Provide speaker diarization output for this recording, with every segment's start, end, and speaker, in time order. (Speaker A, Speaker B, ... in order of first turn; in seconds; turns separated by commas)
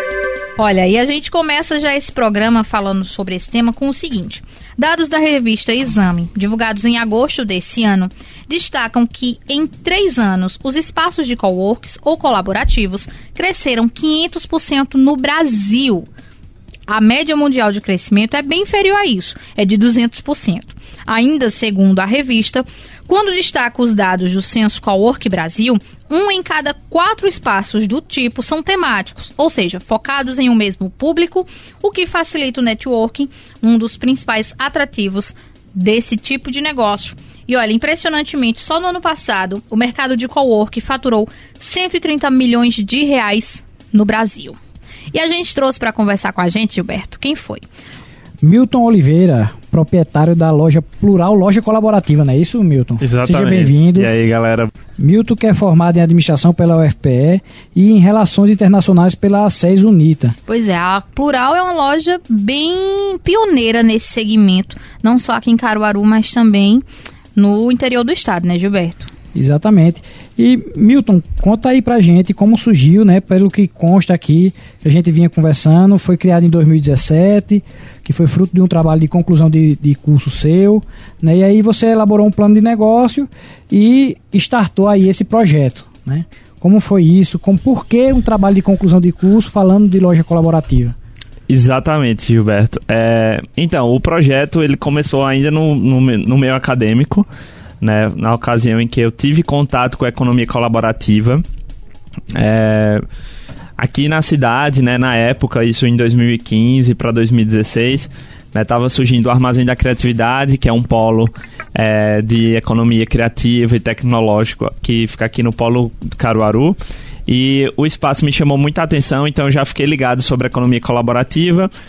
Speaker A: 0.6-16.1, Speaker A: 16.9-44.6, Speaker A: 45.1-47.6, Speaker B: 48.4-54.1, Speaker C: 53.0-54.7, Speaker B: 55.0-60.3, Speaker A: 60.5-69.1, Speaker B: 69.3-91.0, Speaker C: 91.5-97.3, Speaker C: 97.8-101.4, Speaker C: 102.3-103.0, Speaker C: 103.8-121.7